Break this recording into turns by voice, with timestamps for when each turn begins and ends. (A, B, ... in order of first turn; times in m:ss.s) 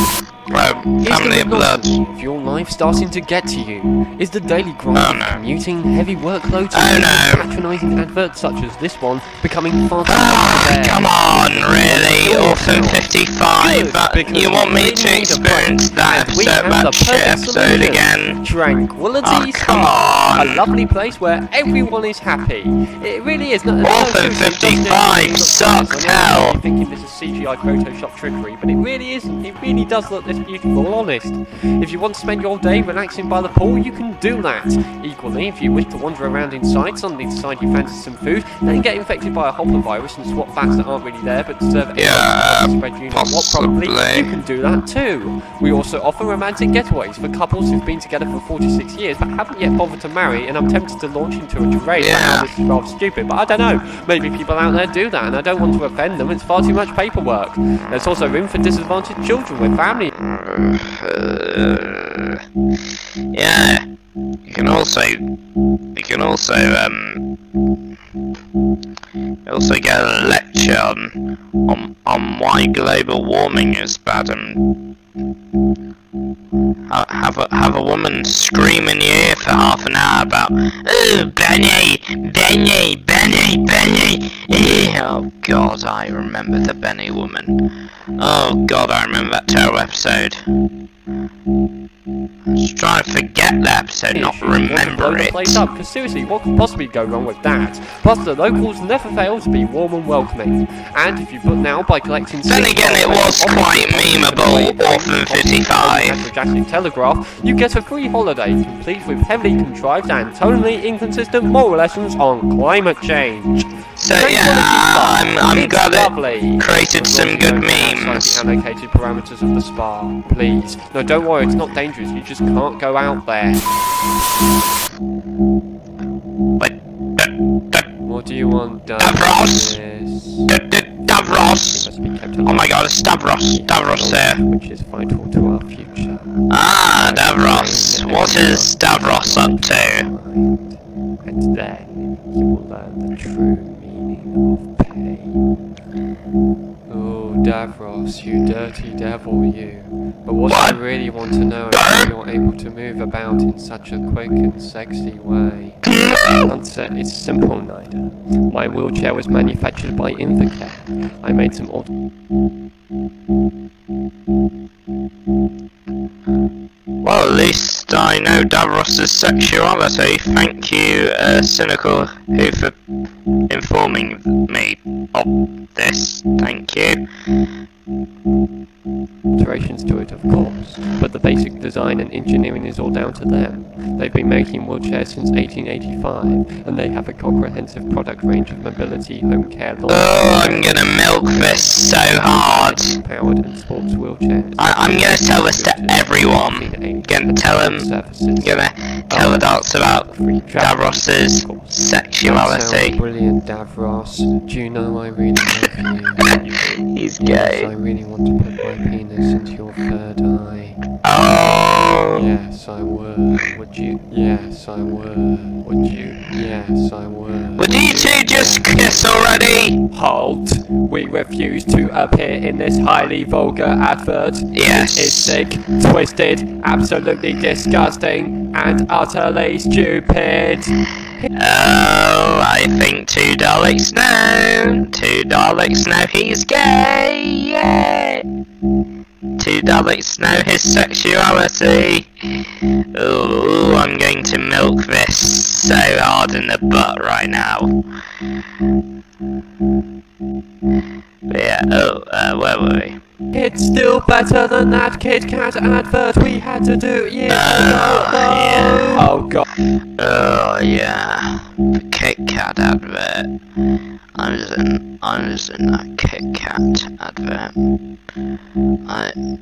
0:00.5-0:02.0 A
0:01.0-1:00.1 B
0:04.9-0:05.4 A
0:06.7-0:07.5 A
0:10.0-0:18.4 A
0:19.2-0:20.6 A
0:23.8-0:26.6 A
0:42.0-0:44.3 A
0:51.9-0:52.5 A
1:00.2-1:02.4 A
1:03.3-1:03.8 A
1:04.4-1:05.2 A
1:06.0-1:07.3 A
1:09.4-1:14.7 A
1:16.9-1:27.7 A
1:28.2-1:30.4 A
1:32.6-1:35.6 A
1:34.1-2:03.6 B
1:42.4-1:46.2 A
1:54.0-1:58.4 A
2:06.6-2:07.9 A
2:08.0-2:10.5 B
2:09.0-2:09.8 A
2:10.5-2:11.9 A
2:11.1-2:16.4 B
2:12.4-2:14.4 A
2:16.5-2:20.1 A
2:16.9-2:25.4 B
2:26.9-2:35.8 B
2:30.5-2:30.8 A
2:31.7-2:32.1 A
2:35.9-2:36.5 A
2:36.4-2:41.9 B
2:47.0-2:52.7 A
2:53.5-2:57.0 A
2:59.3-3:30.8 B
3:09.9-3:13.0 A
3:14.6-3:17.9 A
3:18.4-3:23.0 A
3:26.2-3:27.7 A
3:31.0-3:32.2 A
3:32.1-3:39.1 B
3:37.6-3:39.8 A
3:39.9-3:51.3 B
3:44.5-3:45.4 A
3:51.3-3:58.2 A
3:59.4-4:07.8 A
4:11.3-4:13.0 A
4:13.3-4:19.4 B
4:17.3-4:19.1 A
4:20.0-4:23.3 A
4:24.2-4:27.5 A
4:28.9-4:29.1 A